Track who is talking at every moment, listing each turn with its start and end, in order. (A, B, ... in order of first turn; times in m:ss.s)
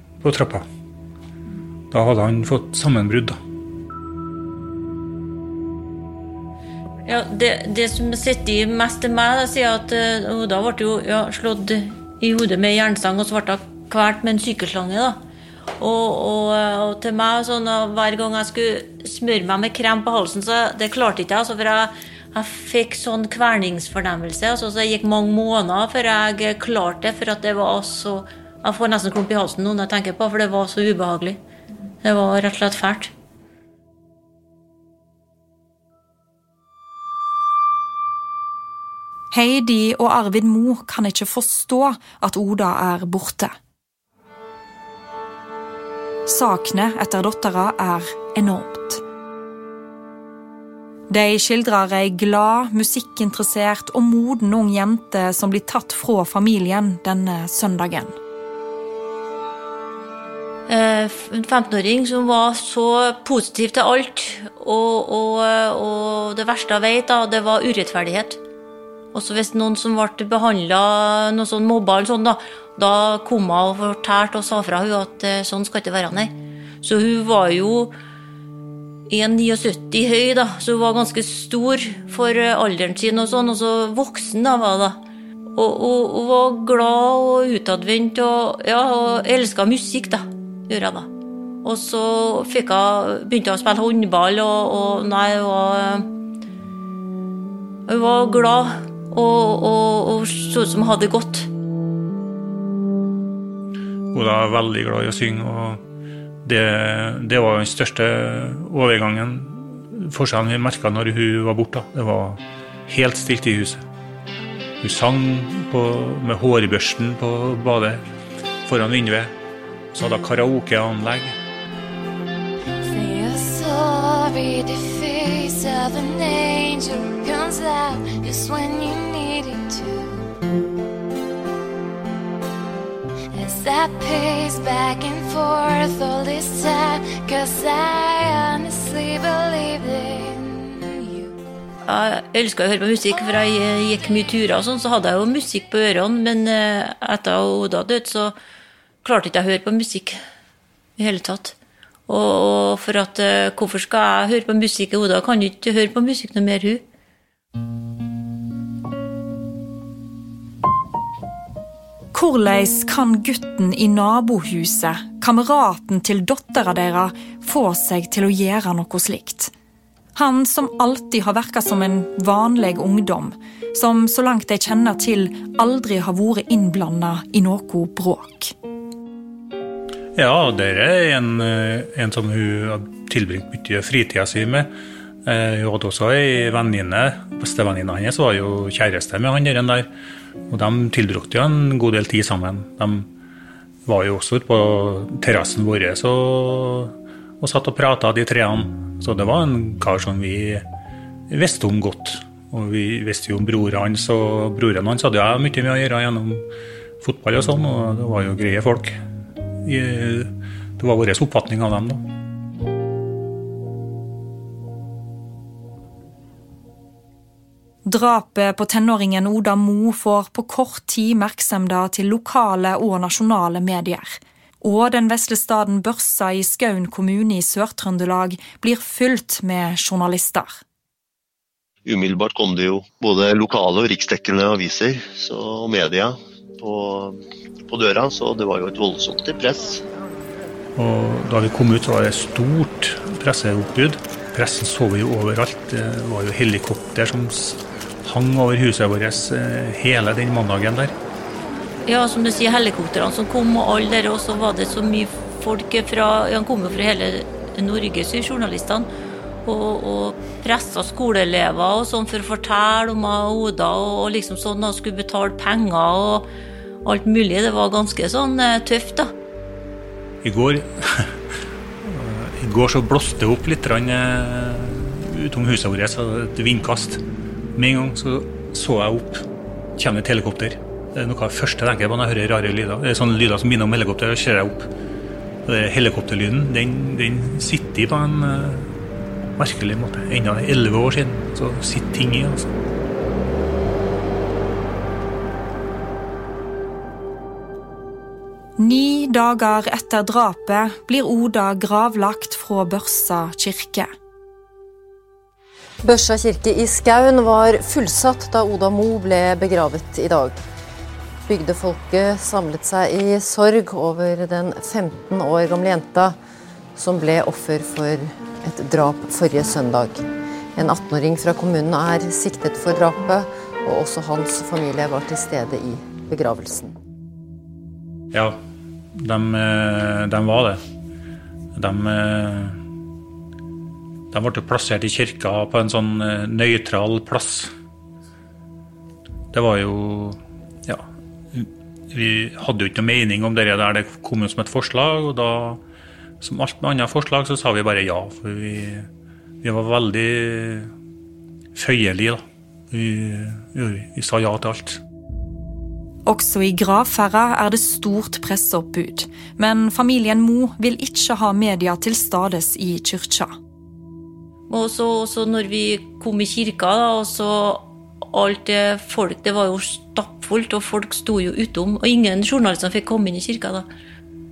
0:00.2-0:00.6 A
0:01.9-0:03.4 A
0:07.0-0:15.2 B
0:15.8-0:31.4 B
0:32.0-0:33.1 B
0:39.3-0:43.5 C
0:46.2-0:49.0 C
0:51.1-0:58.2 C
1:00.7-1:08.4 B
1:09.1-1:17.9 B
1:19.1-1:25.0 B
1:25.5-1:31.1 B
1:31.6-1:36.0 B
1:37.9-1:41.5 B
1:44.1-1:45.8 A
1:46.4-1:53.8 A
1:54.8-1:58.0 A
1:58.6-1:59.3 A
1:59.9-2:01.3 A
2:02.8-2:10.3 D
2:13.3-2:21.3 D
2:21.8-2:28.3 B
2:29.0-2:30.2 B
2:31.0-2:31.6 B
2:32.1-2:36.8 B
2:42.1-2:49.5 C
2:50.1-2:58.5 C
3:00.1-3:04.7 A
3:05.2-3:09.9 A
3:10.5-3:13.1 A
3:13.8-3:20.6 A
3:21.3-3:26.4 A
3:27.0-3:29.0 A
3:29.6-3:32.0 A
3:37.8-3:50.6 C
3:51.8-3:59.8 E
4:00.8-4:10.9 A
4:11.8-4:18.9 B
4:19.4-4:26.2 B
4:26.8-4:29.1 B
4:30.2-4:31.2 A
4:31.8-4:37.0 A
4:37.5-4:39.2 A
4:39.8-4:44.7 A
4:45.4-4:48.7 A
4:49.4-4:52.5 A
4:58.6-5:03.9 C
5:05.8-5:10.4 F
5:11.3-5:16.2 F
5:16.8-5:20.0 F
5:20.6-5:26.7 F
5:28.1-5:28.4 A
5:28.9-5:30.6 A
5:31.5-5:32.6 A
5:34.1-5:37.5 A
5:39.3-5:45.6 A
5:46.2-5:48.9 A
5:49.4-5:50.7 A
5:51.5-5:54.8 A
5:56.0-6:03.3 C
6:04.5-6:13.6 B